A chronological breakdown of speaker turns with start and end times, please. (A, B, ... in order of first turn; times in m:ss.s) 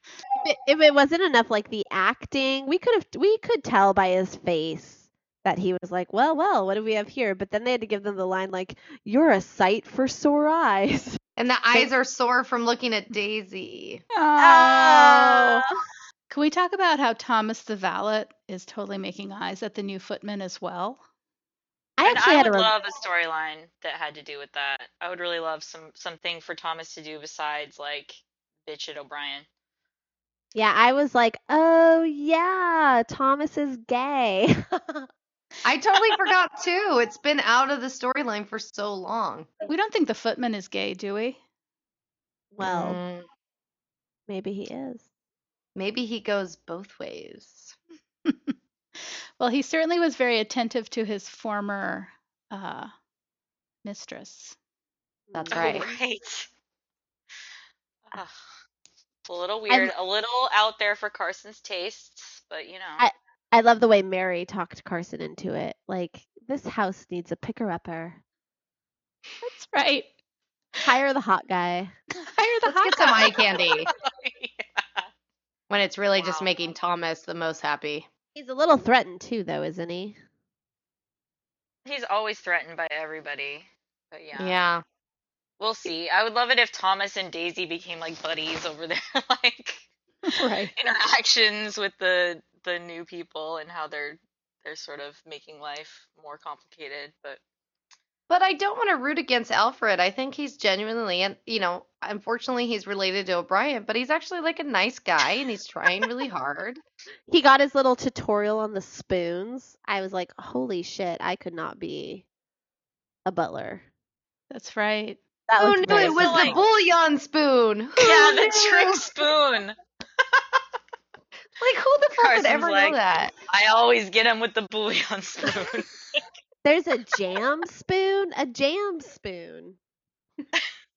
0:00.4-0:11.2 A
0:11.4-0:14.0 B
0:14.1-0:15.6 C
0:14.4-0:15.6 A
0:16.3-0:21.0 C
0:22.0-0:22.7 A
0:22.0-0:29.4 D
0:30.5-0:35.1 A
0:35.6-0:39.5 B
0:39.7-0:41.4 C
0:42.5-0:43.0 A
0:42.6-0:43.2 B
0:44.3-0:45.0 A
0:45.8-0:47.7 B
0:48.2-0:48.5 C
0:49.4-0:52.9 C
0:53.8-0:54.6 C
0:55.3-0:56.0 A
0:55.3-0:55.9 B
0:55.5-0:56.5 D
0:58.1-0:58.5 D
0:59.2-1:03.0 D
1:03.0-1:08.2 A
1:09.4-1:10.1 C
1:10.8-1:11.9 A
1:12.1-1:13.3 C
1:12.7-1:13.9 B
1:13.5-1:15.1 D
1:15.7-1:18.1 B
1:16.1-1:16.5 D
1:18.3-1:20.2 A
1:21.8-1:24.6 D
1:24.4-1:24.8 B
1:25.6-1:29.9 D
1:30.2-1:30.7 C
1:30.7-1:37.4 D
1:38.3-1:46.8 B
1:47.3-1:52.2 A
1:53.2-1:53.8 A
1:54.5-1:55.2 C
1:55.5-1:56.6 A
1:55.6-1:59.0 B
1:55.9-1:56.6 D
1:58.0-1:59.7 D
2:01.6-2:03.3 B
2:02.2-2:06.2 D
2:06.6-2:09.8 A